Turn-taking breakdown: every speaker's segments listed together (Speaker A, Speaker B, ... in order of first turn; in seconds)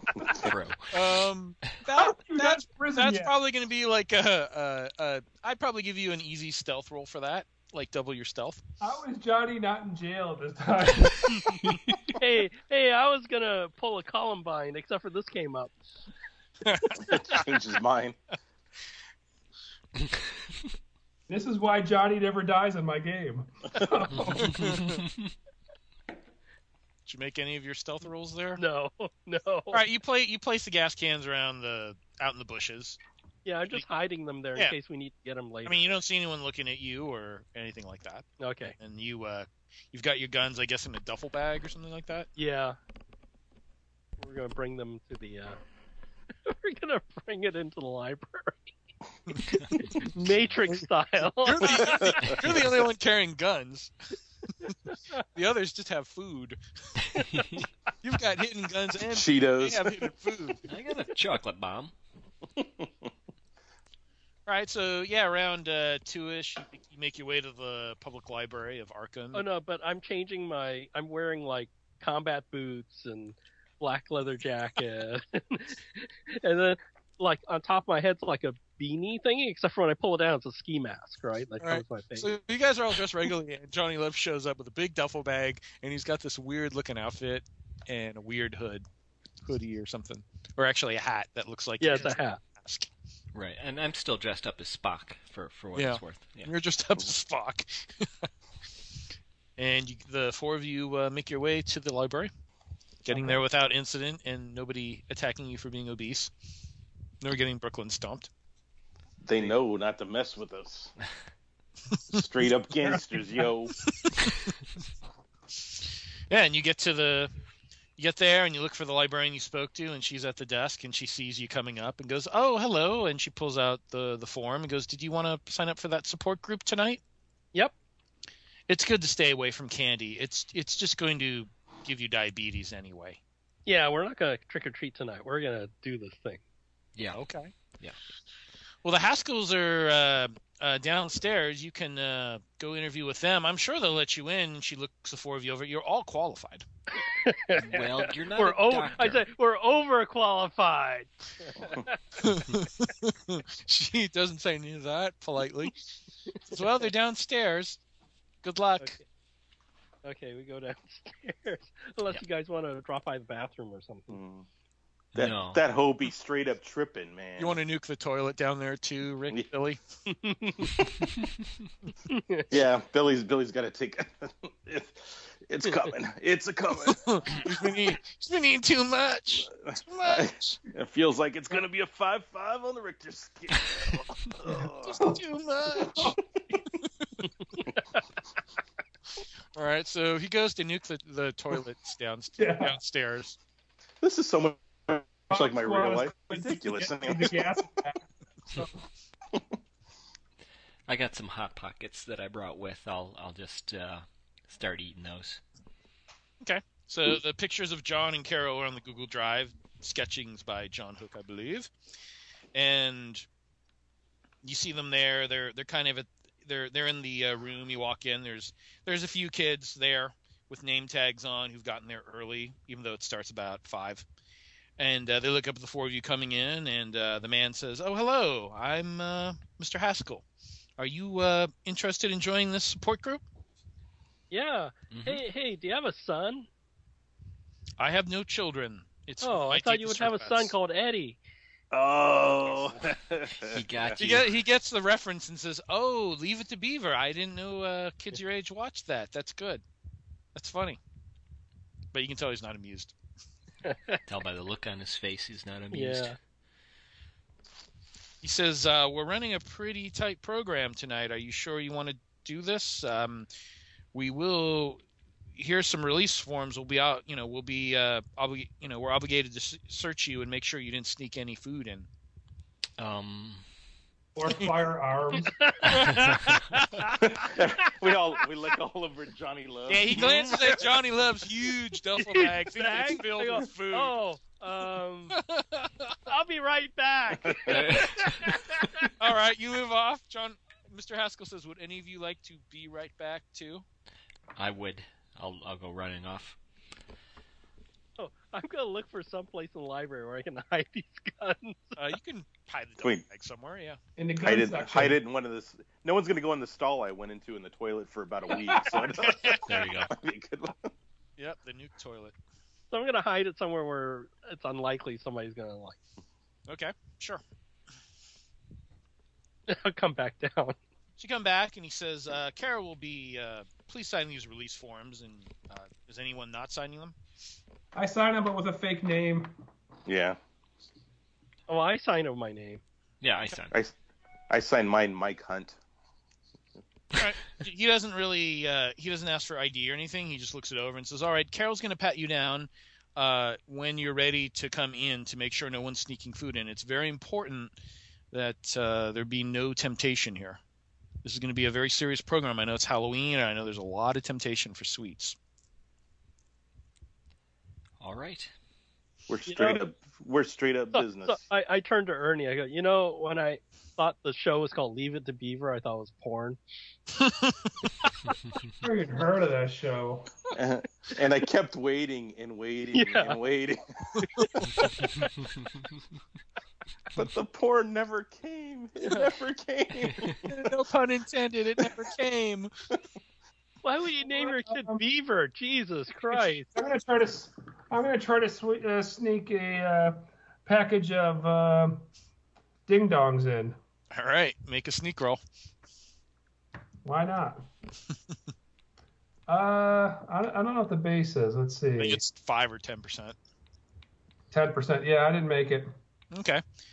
Speaker A: 0.2-0.5, 17.1-18.2, 52.0-52.4, 59.1-60.1, 62.6-62.9, 109.2-110.9, 112.1-113.8, 164.1-164.5, 165.2-167.6, 172.5-177.6, 179.5-185.0, 194.0-197.5, 241.7-244.0, 277.0-280.6, 287.2-287.7, 304.2-310.7, 329.9-330.2, 334.3-335.6, 359.1-361.2, 370.3-374.0, 376.9-380.4
Speaker B: 0.3-1.0, 11.4-12.0, 24.3-25.3, 49.5-50.1, 57.1-57.7, 60.7-61.9, 93.3-96.5, 137.0-137.2, 147.6-149.2, 165.1-165.6, 200.9-205.4, 234.9-235.2, 243.4-244.3, 254.1-256.2, 272.8-273.4, 275.7-276.6, 287.5-288.3, 294.4-296.4, 309.5-309.9, 333.0-333.6, 357.8-358.3, 368.1-368.5
Speaker C: 0.9-8.6, 16.6-17.4, 24.3-25.0, 27.1-28.6, 29.7-33.0, 35.6-42.3, 49.3-49.8, 51.4-53.9, 55.3-57.0, 58.0-60.6, 64.5-69.4, 81.6-88.8, 89.5-92.9, 95.8-98.1, 99.6-102.3, 103.0-106.3, 107.2-108.3, 111.9-112.2, 114.0-114.5, 116.3-117.3, 118.0-127.0, 128.7-133.2, 137.1-137.5, 138.8-146.7, 152.2-155.8, 156.4-157.8, 158.4-159.0, 167.4-169.8, 176.9-180.6, 184.8-186.2, 189.6-193.4, 206.4-211.7, 212.5-213.3, 214.4-224.1, 224.8-230.2, 230.8-233.2, 237.8-240.5, 244.0-249.6, 250.3-250.8, 251.9-252.9, 258.2-263.3, 263.9-264.8, 265.4-271.9, 275.7-276.9, 279.7-283.9, 285.1-286.0, 289.0-293.6, 301.8-303.8, 308.8-309.7, 311.2-312.1, 316.5-317.2, 321.0-326.9, 336.9-347.5, 348.1-350.4, 351.0-355.2, 367.0-367.9, 374.0-374.5, 380.2-382.5, 384.5-384.8, 393.9-395.2, 401.8-403.2, 406.1-406.4
Speaker D: 2.0-3.3, 8.8-11.7, 21.3-24.8, 103.1-103.4, 185.9-186.2, 192.4-192.8, 195.3-198.0, 274.1-275.9, 304.0-305.0, 327.8-329.3, 368.6-370.1, 386.6-391.9, 392.7-393.6, 396.9-397.4, 399.3-402.0, 404.3-405.7
Speaker E: 12.2-15.8, 28.6-29.8, 33.5-35.9, 38.4-38.8, 42.4-42.8, 44.2-45.6, 46.5-48.8, 49.7-52.4, 69.3-82.3, 91.8-92.4, 133.7-136.4, 147.0-152.0, 158.8-159.1, 160.0-164.2, 170.1-170.9, 172.1-172.5, 234.3-236.5, 239.2-241.2, 253.6-254.0, 255.7-256.2, 275.4-276.7, 282.0-285.2, 286.1-288.9, 298.0-301.8, 312.7-315.8, 319.5-320.6, 331.5-332.6, 359.3-359.6, 360.7-366.4, 372.7-373.2, 374.2-375.1, 383.6-386.5